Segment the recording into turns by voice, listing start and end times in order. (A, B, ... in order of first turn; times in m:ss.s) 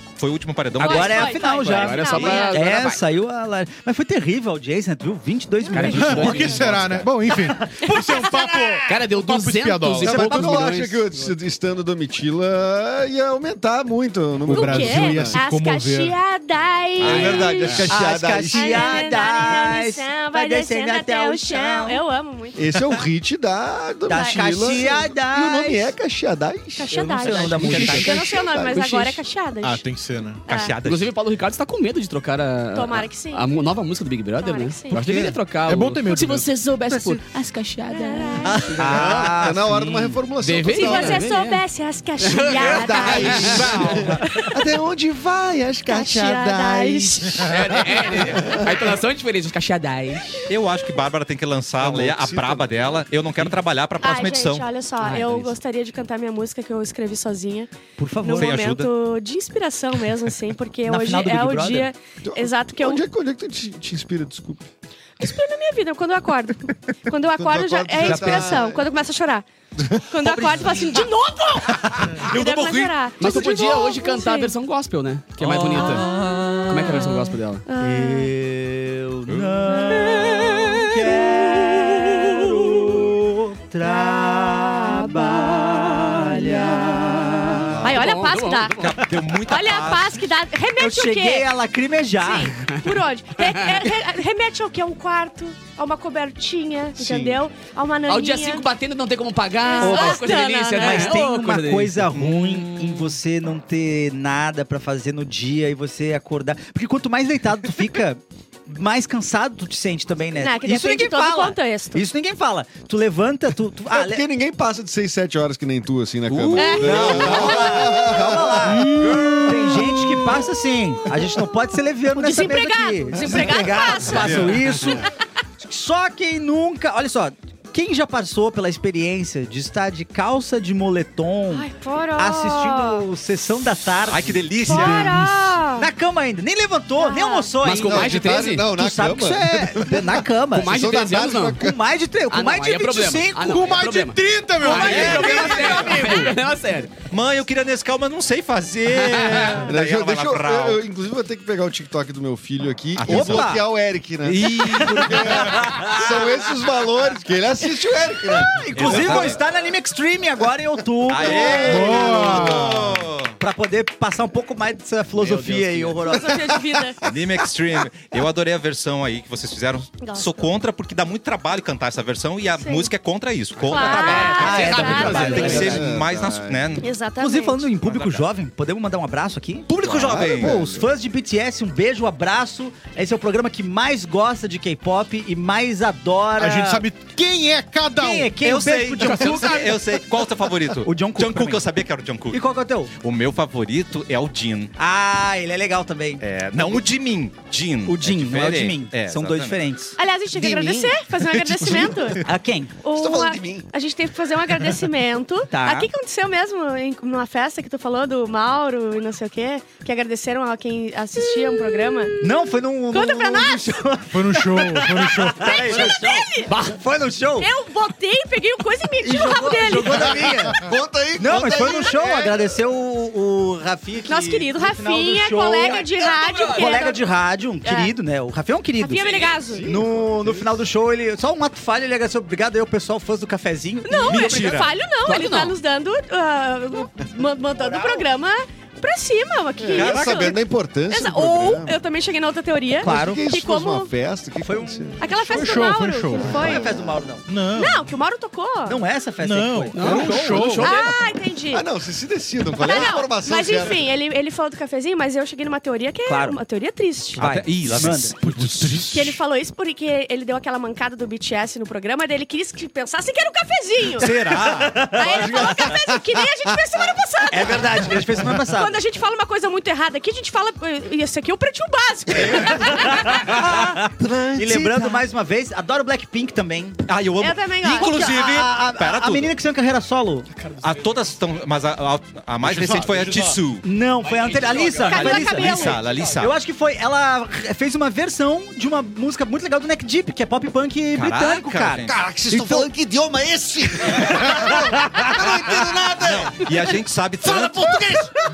0:00.2-0:01.4 A
0:00.8-0:06.6 B
0:00.8-0:02.6 C
0:01.5-0:03.0 D
0:02.1-0:02.4 A
0:05.7-0:06.8 C
0:05.7-0:07.0 D
0:05.8-0:10.7 E
0:07.3-0:08.8 B
0:07.8-0:08.8 C
0:08.8-0:11.3 D
0:10.0-0:10.6 B
0:10.0-0:15.4 F
0:14.4-0:16.1 E
0:14.5-0:17.9 C
0:17.0-0:17.9 A
0:17.0-0:19.0 F
0:17.3-0:17.9 D
0:17.9-0:22.0 B
0:18.5-0:22.6 C
0:22.6-0:26.9 F
0:24.1-0:25.9 B
0:24.1-0:25.0 C
0:26.7-0:29.8 C
0:26.9-0:28.3 D
0:27.0-0:28.2 B
0:27.5-0:28.1 E
0:28.0-0:29.1 F
0:29.6-0:30.4 E
0:30.5-0:30.7 C
0:30.5-0:31.1 A
0:30.8-0:39.2 D
0:32.7-0:33.5 C
0:34.4-0:35.0 C
0:34.9-0:37.2 E
0:37.9-0:38.7 C
0:38.6-0:40.2 B
0:38.8-0:41.2 F
0:40.4-0:41.6 D
0:40.7-0:44.7 C
0:42.2-0:44.1 D
0:42.5-0:48.9 F
0:43.4-0:44.2 A
0:45.9-0:47.5 C
0:47.4-0:50.5 D
0:50.5-0:54.7 A
0:51.8-0:53.1 F
0:54.0-0:57.7 C
0:55.0-0:55.5 D
0:58.0-0:58.6 B
0:58.2-1:03.0 C
0:58.4-0:58.9 A
1:00.8-1:01.9 B
1:02.2-1:04.6 F
1:05.2-1:09.4 C
1:07.3-1:08.9 F
1:08.0-1:08.6 B
1:09.8-1:10.1 F
1:10.1-1:14.5 C
1:10.2-1:10.7 B
1:11.8-1:13.5 A
1:13.2-1:16.1 D
1:15.4-1:17.0 A
1:15.7-1:18.3 C
1:16.7-1:17.6 D
1:17.8-1:27.8 B
1:19.3-1:19.8 A
1:24.0-1:27.1 C
1:27.7-1:27.9 F
1:27.8-1:31.5 C
1:27.8-1:29.1 D
1:28.8-1:30.2 A
1:30.8-1:32.5 B
1:32.1-1:38.6 C
1:32.6-1:33.8 D
1:37.0-1:37.3 F
1:38.1-1:42.2 D
1:39.6-1:41.2 C
1:39.8-1:54.2 B
1:42.2-1:42.8 A
1:50.4-1:52.0 C
1:53.9-2:00.2 F
1:56.3-1:56.8 D
1:56.6-1:58.3 C
1:56.7-2:05.0 B
1:56.8-1:57.7 A
1:59.0-1:59.4 A
2:02.1-2:05.0 C
2:03.1-2:03.7 F
2:04.1-2:04.6 A
2:05.6-2:20.9 B
2:11.5-2:13.0 C
2:14.1-2:15.2 A
2:14.6-2:15.9 C
2:17.0-2:17.6 C
2:17.6-2:18.6 D
2:17.6-2:21.8 F
2:20.5-2:21.6 D
2:21.6-2:23.8 B
2:22.3-2:26.9 D
2:23.4-2:25.6 E
2:24.6-2:26.3 B
2:24.7-2:26.3 A
2:25.4-2:26.2 C
2:27.1-2:30.8 A
2:29.6-2:39.3 F
2:33.0-2:33.6 A
2:33.0-2:33.6 B
2:34.2-2:35.8 A
2:34.8-2:36.3 B
2:38.2-2:42.6 B
2:38.7-2:39.4 A
2:41.1-2:43.3 A
2:41.2-2:42.2 F
2:41.5-2:43.0 E
2:43.4-2:46.5 B
2:45.2-2:45.9 D
2:46.0-2:47.0 C
2:46.6-2:47.1 F
2:47.0-2:56.9 A
2:50.0-2:50.5 C
2:52.6-2:52.9 C
2:53.6-2:55.4 C
2:53.7-2:55.8 B
2:53.7-2:55.9 D
2:54.9-2:56.8 F
2:56.8-2:57.6 C
2:57.2-3:06.8 B
2:57.8-2:58.2 A
2:59.7-3:00.6 A
2:59.9-3:00.9 F
3:06.4-3:08.4 E
3:08.0-3:09.8 B
3:08.4-3:12.4 A
3:10.8-3:11.7 B
3:12.3-3:12.9 B
3:13.0-3:14.7 A
3:14.8-3:16.8 B
3:16.2-3:19.6 A
3:17.8-3:20.0 B
3:20.0-3:22.2 C
3:20.3-3:22.2 F
3:22.2-3:22.7 B
3:22.8-3:33.8 C
3:22.9-3:23.7 F
3:25.5-3:25.9 B
3:32.2-3:37.5 B
3:34.1-3:35.5 E
3:35.4-3:36.6 C
3:35.7-3:36.0 F
3:36.5-3:36.8 D
3:37.4-3:40.4 C
3:39.0-3:40.6 B
3:39.9-3:42.6 F
3:41.2-3:45.8 B
3:44.0-3:47.0 C
3:45.9-3:46.8 D
3:46.4-3:54.5 B
3:47.6-3:47.9 C
3:48.8-3:49.7 C
3:49.3-3:50.6 F
3:53.8-4:03.9 C
3:54.1-3:54.7 A
3:55.0-3:55.5 D
3:57.5-3:58.0 B
3:59.6-4:01.8 F
3:59.7-4:00.3 A
4:02.8-4:03.2 B
4:02.8-4:05.1 F
4:04.4-4:05.1 B
4:05.0-4:06.8 C
4:05.3-4:06.4 E
4:06.2-4:07.2 B
4:06.3-4:07.0 F
4:07.3-4:07.8 E
4:07.5-4:08.8 C
4:08.6-4:10.7 B
4:09.2-4:10.9 E
4:09.7-4:11.0 D
4:10.4-4:11.6 C
4:11.5-4:13.8 F
4:12.6-4:17.2 C
4:16.1-4:16.4 B
4:17.1-4:18.2 B
4:17.2-4:18.9 A
4:17.8-4:19.2 E
4:18.9-4:24.1 C
4:24.0-4:25.3 A
4:24.0-4:25.7 B
4:24.9-4:33.4 C
4:25.1-4:26.0 F
4:27.3-4:28.8 B
4:32.4-4:36.8 B
4:34.0-4:35.0 A
4:36.9-4:39.4 A
4:37.2-4:38.0 C
4:37.6-4:40.3 B
4:40.3-4:41.0 D
4:40.6-4:43.6 A
4:42.4-4:43.4 E
4:43.6-4:52.7 B
4:44.0-4:46.2 D
4:44.6-4:45.8 C
4:44.9-4:46.3 A
4:50.9-4:51.9 A
4:51.8-4:58.2 F
4:54.2-4:55.1 B
4:55.1-4:58.0 A